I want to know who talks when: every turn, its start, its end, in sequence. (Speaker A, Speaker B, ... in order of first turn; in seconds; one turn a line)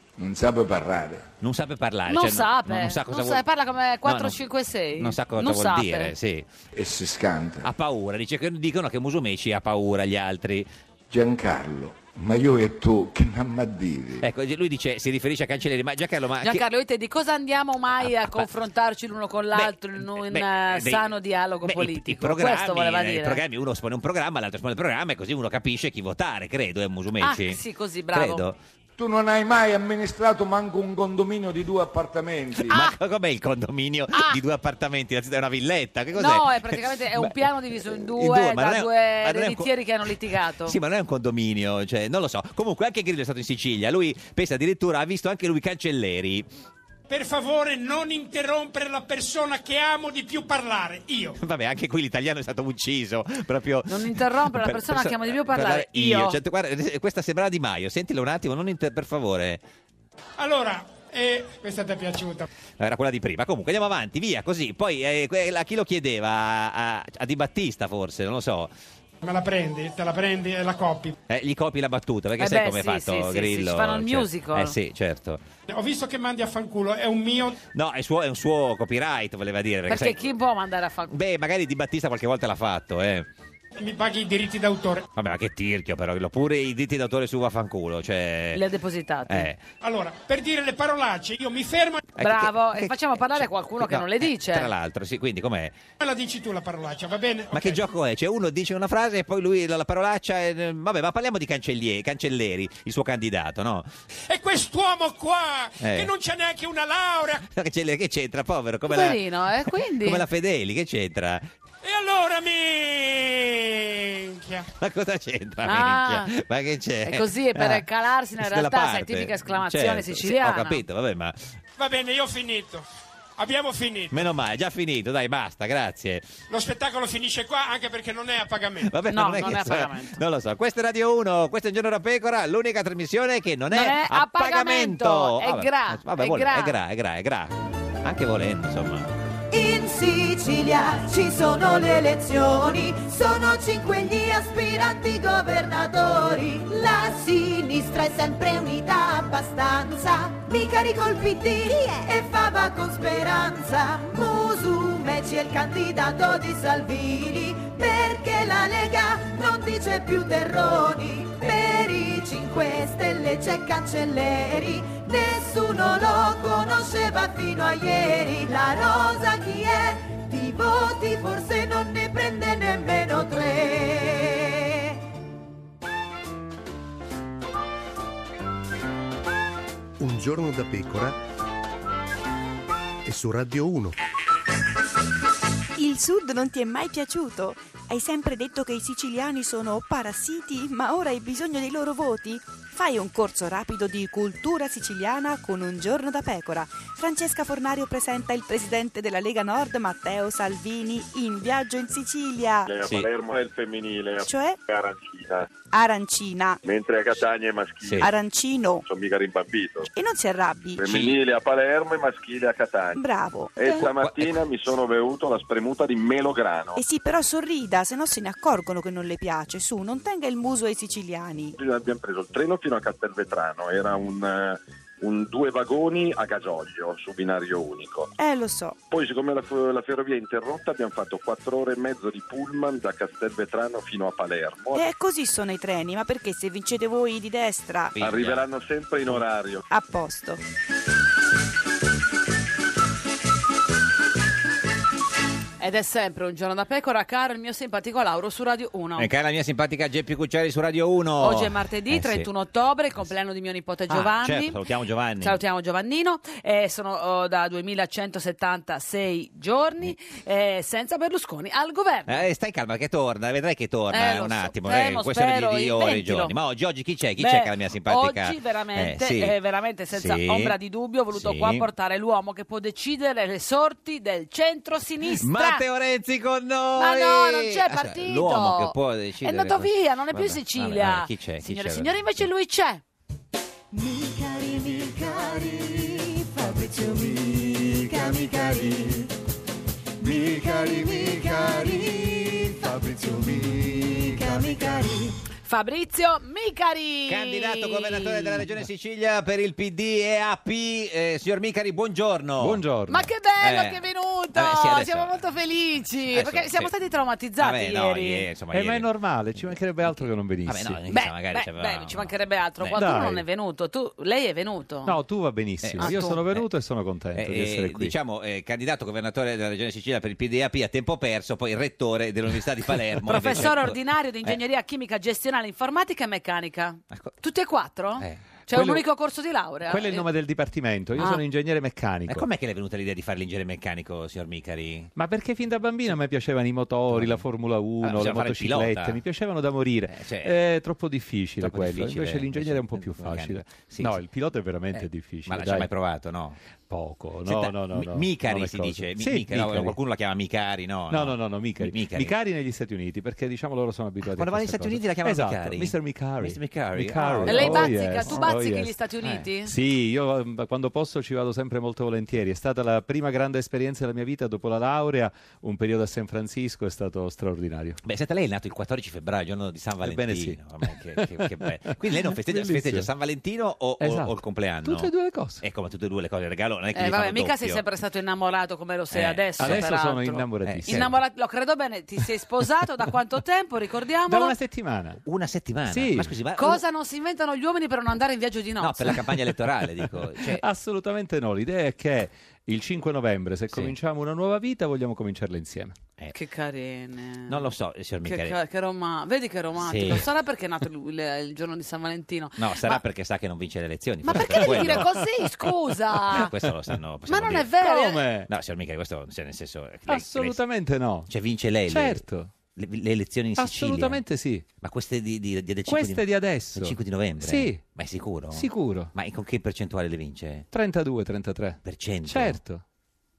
Speaker A: 0.2-1.2
Speaker B: 1.4-3.4
Speaker C: 2.1-6.1
Speaker B: 4.0-4.4
Speaker B: 5.0-6.5
Speaker A: 6.7-7.7
Speaker B: 7.6-10.7
Speaker A: 11.1-14.3
Speaker B: 14.2-16.6
Speaker C: 16.4-23.4
Speaker B: 18.0-18.5
Speaker B: 19.5-21.1
Speaker B: 21.6-27.6
Speaker C: 27.2-28.4
Speaker B: 28.1-28.6
Speaker A: 29.0-32.9
Speaker B: 32.7-39.7
Speaker C: 34.1-34.4
Speaker C: 36.1-40.8
Speaker B: 40.6-46.5
Speaker D: 47.1-51.4
Speaker B: 51.3-59.6
Speaker C: 53.9-56.4
Speaker D: 60.4-62.5
Speaker B: 62.8-68.7
Speaker D: 69.2-71.1
Speaker B: 71.3-75.4
Speaker C: 72.4-74.7
Speaker D: 75.7-77.5
Speaker B: 77.7-80.3
Speaker C: 79.9-81.1
Speaker B: 81.1-83.3
Speaker D: 83.8-85.0
Speaker B: 85.1-88.6
Speaker C: 88.5-89.5
Speaker B: 89.3-89.6
Speaker D: 89.8-92.0
Speaker B: 92.2-95.8
Speaker C: 92.2-94.7
Speaker D: 96.0-97.8
Speaker B: 97.5-103.9
Speaker D: 104.3-107.5
Speaker B: 105.8-106.1
Speaker B: 107.4-109.2
Speaker C: 108.9-110.2
Speaker B: 110.0-111.5
Speaker D: 111.8-114.7
Speaker B: 114.8-117.8
Speaker C: 115.6-116.3
Speaker C: 117.0-120.8
Speaker B: 118.4-121.6
Speaker D: 121.8-122.8
Speaker D: 123.4-124.2
Speaker B: 124.1-126.3
Speaker D: 126.5-128.9
Speaker B: 128.8-139.1
Speaker C: 129.1-130.2
Speaker C: 133.7-136.7
Speaker E: 139.5-174.9
Speaker F: 180.0-181.2
Speaker F: 183.0-183.9
Speaker G: 185.8-202.7
Speaker H: 202.7-205.5
Speaker G: 204.2-204.6
Speaker G: 205.7-206.6
Speaker H: 206.6-208.1
Speaker B: 207.8-208.1
Speaker G: 208.0-208.8
Speaker H: 208.8-209.9
Speaker G: 209.9-210.9
Speaker H: 210.8-213.0
Speaker B: 210.9-211.1
Speaker G: 212.9-213.9
Speaker H: 213.6-216.8
Speaker B: 213.8-214.3
Speaker G: 216.8-221.6
Speaker H: 221.6-228.1
Speaker G: 228.2-228.8
Speaker H: 228.9-234.8
Speaker G: 234.7-237.9
Speaker B: 237.9-238.4
Speaker H: 238.0-239.6
Speaker G: 239.7-240.4
Speaker C: 245.6-249.1
Speaker B: 249.0-252.3
Speaker C: 251.2-254.6
Speaker B: 253.9-255.4
Speaker C: 255.2-262.2
Speaker B: 262.1-269.4
Speaker C: 263.9-266.3
Speaker C: 267.2-275.6
Speaker B: 269.9-270.5
Speaker B: 271.1-271.7
Speaker B: 275.1-282.1
Speaker C: 276.8-282.8
Speaker E: 283.7-289.1
Speaker E: 290.0-295.1
Speaker C: 295.4-298.4
Speaker B: 297.1-302.6
Speaker I: 302.4-303.1
Speaker C: 302.9-308.2
Speaker B: 303.4-303.8
Speaker B: 304.3-305.2
Speaker B: 306.1-306.7
Speaker B: 307.4-308.9
Speaker I: 308.5-310.8
Speaker B: 309.4-312.8
Speaker C: 310.9-314.9
Speaker I: 312.7-313.2
Speaker I: 314.8-317.9
Speaker B: 315.6-316.4
Speaker C: 315.8-316.2
Speaker B: 317.1-324.4
Speaker C: 323.1-330.1
Speaker I: 328.5-328.8
Speaker I: 329.7-332.3
Speaker B: 332.1-334.9
Speaker I: 334.9-345.7
Speaker B: 336.9-337.2
Speaker B: 337.8-339.0
Speaker B: 339.9-340.3
Speaker B: 341.4-344.0
Speaker B: 344.7-346.4
Speaker I: 346.7-349.8
Speaker B: 347.2-352.1
Speaker I: 350.9-358.7
Speaker B: 354.1-358.3
Speaker C: 357.2-359.5
Speaker I: 359.4-367.8
Speaker B: 367.8-374.9
Speaker I: 369.8-371.3
Speaker I: 371.9-372.9
Speaker I: 373.8-375.4
Speaker B: 375.4-377.6
Speaker C: 376.7-384.4
Speaker B: 378.9-379.7
Speaker I: 379.4-380.9
Speaker B: 380.4-380.9
Speaker I: 384.1-385.0
Speaker B: 385.1-386.6
Speaker I: 385.7-386.1
Speaker C: 386.4-389.0
Speaker B: 388.6-390.4
Speaker I: 390.2-395.7
Speaker B: 393.5-393.8
Speaker C: 396.1-397.4
Speaker B: 397.3-398.4
Speaker C: 398.0-402.8
Speaker B: 399.6-400.1
Speaker B: 402.4-404.9
Speaker C: 404.0-406.3
Speaker I: 404.1-405.2
Speaker B: 406.1-407.5
Speaker C: 407.1-408.0
Speaker I: 407.6-408.3
Speaker B: 408.3-410.4
Speaker I: 409.9-411.1
Speaker B: 411.1-412.0
Speaker I: 411.7-412.3
Speaker B: 412.5-414.0
Speaker I: 413.4-414.4
Speaker B: 414.6-420.5
Speaker I: 415.7-417.6
Speaker I: 418.3-418.9
Speaker I: 420.5-422.6
Speaker B: 421.6-422.4